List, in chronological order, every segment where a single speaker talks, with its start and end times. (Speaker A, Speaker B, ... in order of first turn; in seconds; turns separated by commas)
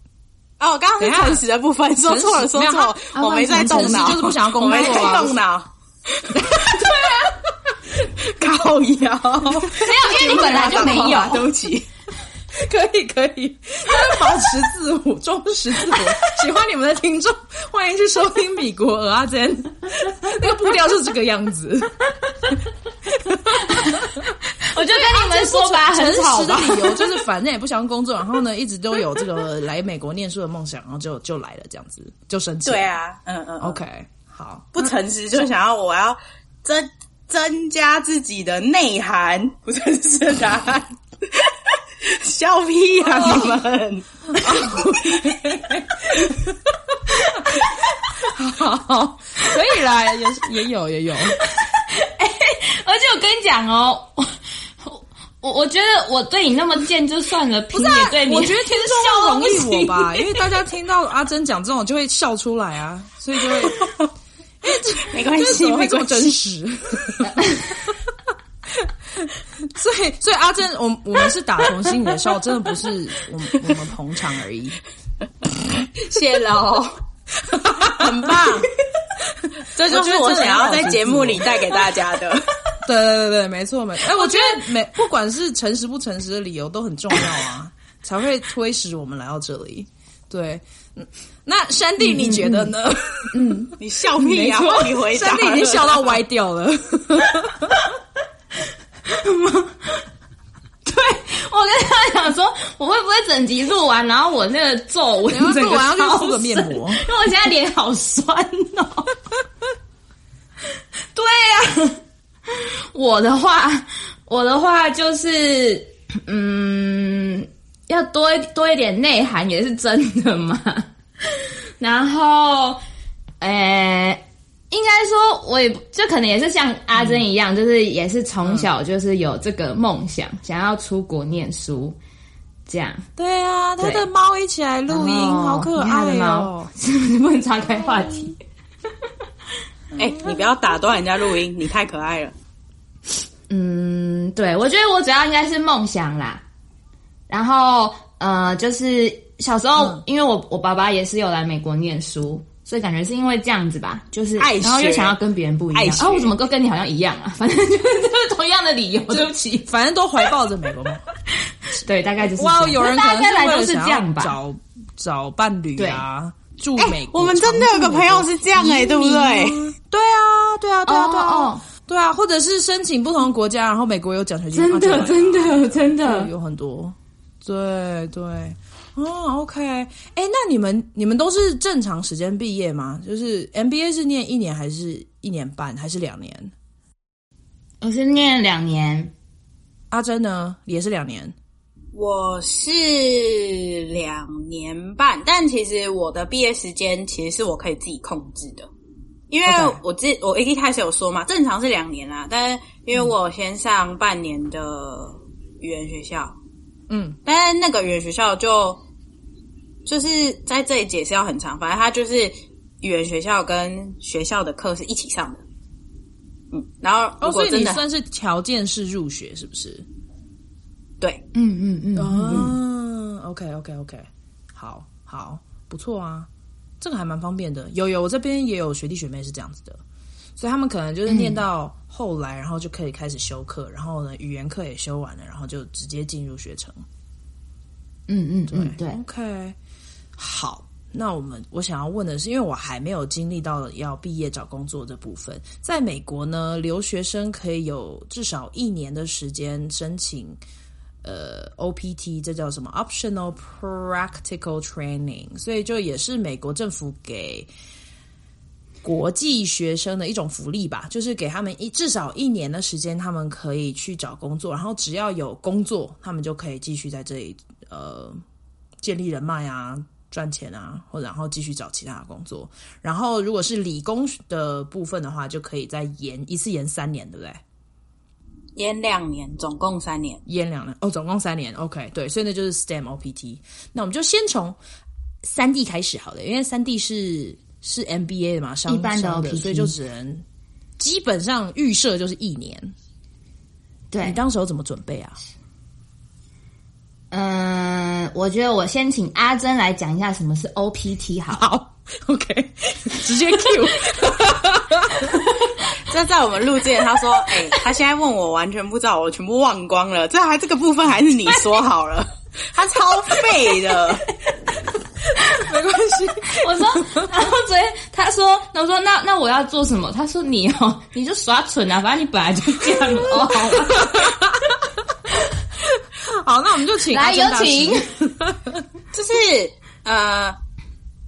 Speaker A: 0.6-6.4, Speaker B: 1.0-1.4, Speaker B: 2.0-5.3, Speaker C: 3.1-4.3, Speaker B: 6.3-7.2, Speaker C: 6.8-7.3, Speaker A: 8.2-11.9, Speaker B: 9.3-11.3, Speaker C: 9.8-11.5, Speaker B: 12.5-22.1, Speaker B: 23.1-24.3, Speaker C: 23.6-27.2, Speaker B: 24.9-33.0, Speaker A: 32.6-33.8, Speaker B: 33.6-34.9, Speaker A: 34.7-44.9, Speaker B: 43.1-43.5, Speaker B: 44.3-46.5, Speaker B: 48.2-51.4, Speaker C: 51.4-60.5, Speaker B: 57.7-63.9, Speaker B: 64.6-67.9, Speaker A: 65.1-66.4, Speaker C: 67.3-67.8, Speaker B: 68.8-74.8, Speaker A: 76.0-77.0, Speaker B: 77.4-78.6, Speaker A: 77.8-78.7, Speaker B: 79.3-81.5, Speaker A: 79.7-82.5, Speaker B: 82.8-97.8, Speaker C: 84.1-84.6, Speaker C: 92.0-92.7, Speaker C: 93.3-93.7, Speaker A: 93.8-96.2, Speaker C: 99.0-100.0, Speaker C: 100.8-109.2, Speaker B: 105.3-107.0, Speaker C: 111.1-122.8, Speaker C: 123.4-132.0, Speaker B: 126.9-127.2, Speaker B: 128.4-128.7, Speaker C: 132.7-133.1, Speaker B: 133.2-136.7, Speaker C: 133.8-134.1, Speaker C: 134.9-138.4, Speaker B: 139.9-140.3, Speaker A: 140.0-142.3, Speaker C: 143.5-146.4, Speaker C: 147.3-159.7, Speaker B: 149.8-150.0, Speaker A: 154.4-155.2, Speaker A: 155.7-156.3, Speaker B: 159.7-161.0, Speaker C: 161.5-164.3, Speaker B: 162.2-186.5, Speaker C: 165.8-166.0, Speaker A: 166.8-169.7, Speaker C: 168.6-169.5, Speaker C: 170.9-171.6, Speaker C: 174.5-176.3, Speaker C: 187.8-189.1, Speaker B: 189.9-191.3, Speaker A: 191.9-198.7, Speaker A: 199.3-206.3, Speaker B: 199.5-199.8, Speaker B: 206.9-207.2, Speaker A: 207.2-208.8, Speaker A: 209.8-215.4, Speaker A: 216.5-217.8, Speaker B: 217.2-219.8, Speaker C: 221.3-222.6, Speaker B: 221.9-226.3, Speaker B: 226.8-229.8, Speaker B: 230.4-236.8, Speaker C: 231.1-231.4, Speaker C: 238.1-239.0, Speaker B: 238.5-239.6, Speaker B: 240.2-250.4, Speaker B: 251.0-257.5, Speaker B: 258.8-268.2, Speaker B: 268.8-277.4, Speaker A: 278.6-280.2, Speaker B: 280.2-284.6, Speaker B: 285.2-290.2, Speaker C: 288.7-289.7, Speaker B: 290.8-292.7, Speaker C: 293.9-294.2, Speaker B: 294.0-295.2, Speaker C: 297.1-301.4, Speaker B: 301.3-305.3, Speaker A: 305.9-314.1, Speaker C: 311.3-311.6, Speaker B: 315.1-317.1, Speaker C: 316.3-324.2, Speaker B: 322.9-324.8, Speaker B: 325.6-328.6, Speaker C: 326.9-327.9, Speaker A: 328.9-330.4